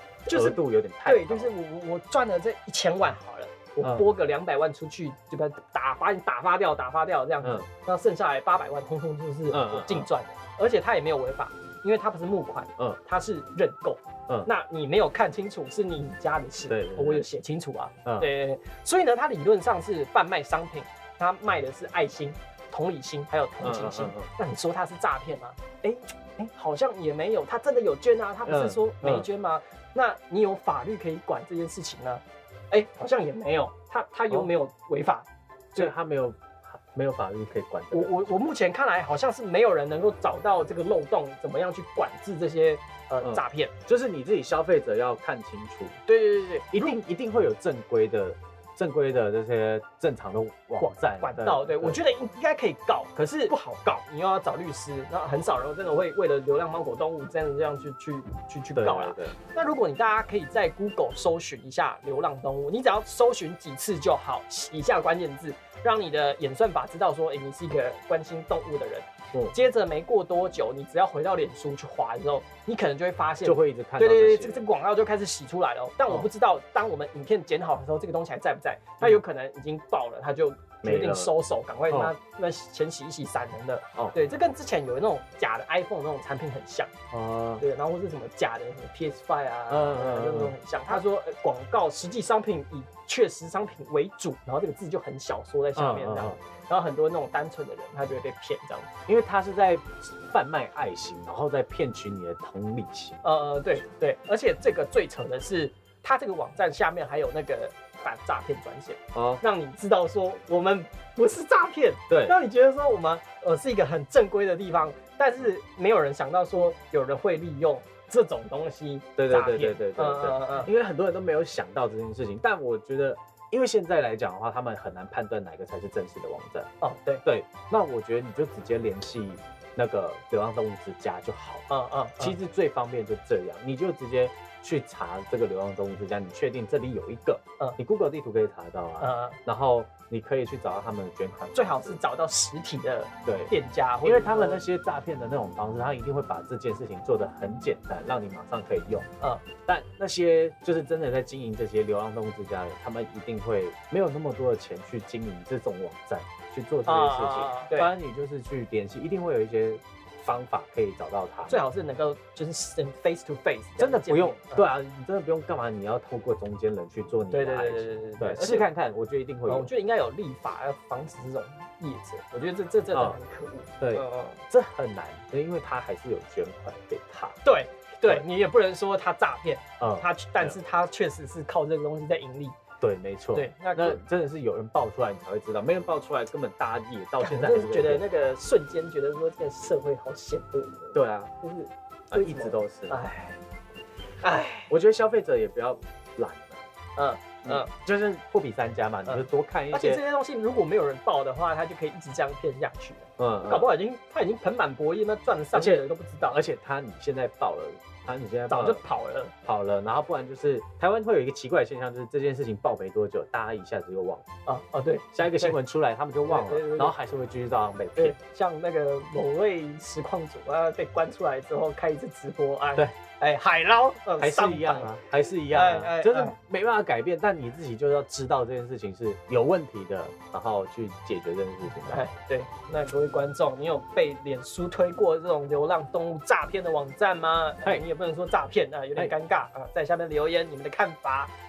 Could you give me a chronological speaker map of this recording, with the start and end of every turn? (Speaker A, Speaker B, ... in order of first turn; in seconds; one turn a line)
Speaker A: 0.3-35.9
Speaker B: 0.3-1.5
Speaker B: 3.8-4.1
Speaker B: 9.5-10.1
Speaker B: 16.7-17.3
Speaker B: 18.1-18.3
Speaker B: 23.6-24.3
Speaker B: 28.4-29.3
Speaker B: 35.7-38.3
Speaker A: 37.9-43.7
Speaker B: 43.2-46.0
Speaker A: 46.1-47.0
Speaker B: 46.7-52.0
Speaker A: 50.8-86.9
Speaker B: 58.8-59.4
Speaker B: 73.4-74.7
Speaker B: 80.8-81.3
Speaker B: 81.9-82.2
Speaker B: 87.1-87.6
Speaker A: 87.6-98.9
Speaker B: 89.7-90.5
Speaker B: 95.8-96.4
Speaker B: 99.1-103.2
Speaker A: 103.2-120.7
Speaker B: 109.1-109.4
Speaker B: 112.1-112.4
Speaker B: 119.2-126.7
Speaker A: 126.8-127.2
Speaker B: 127.2-131.7
Speaker A: 131.7-132.4
Speaker B: 132.2-142.0
Speaker A: 139.0-139.4
Speaker A: 141.5-144.6
Speaker B: 143.3-143.5
Speaker B: 144.0-149.1
Speaker B: 149.7-161.6
Speaker A: 156.9-157.9
Speaker A: 161.5-164.7
Speaker B: 163.8-169.7
Speaker A: 167.3-168.7
Speaker A: 169.5-174.4
Speaker B: 172.9-173.2
Speaker B: 173.8-177.4
Speaker A: 177.4-182.6
Speaker B: 179.8-180.6
Speaker B: 182.8-188.1
Speaker A: 183.3-184.0
Speaker A: 187.2-193.4
Speaker B: 190.9-191.3
Speaker B: 192.1-193.0
Speaker A: 194.2-194.7
Speaker B: 194.7-196.6
Speaker A: 197.0-197.7
Speaker B: 197.4-200.0
Speaker A: 199.1-206.4
Speaker B: 203.2-203.7
Speaker B: 205.5-208.8
Speaker A: 208.5-209.3
Speaker B: 209.4-214.2
Speaker A: 214.5-215.6
Speaker B: 215.1-218.2
Speaker A: 216.3-216.9
Speaker A: 218.0-226.4
Speaker B: 224.2-232.1
Speaker A: 231.9-241.3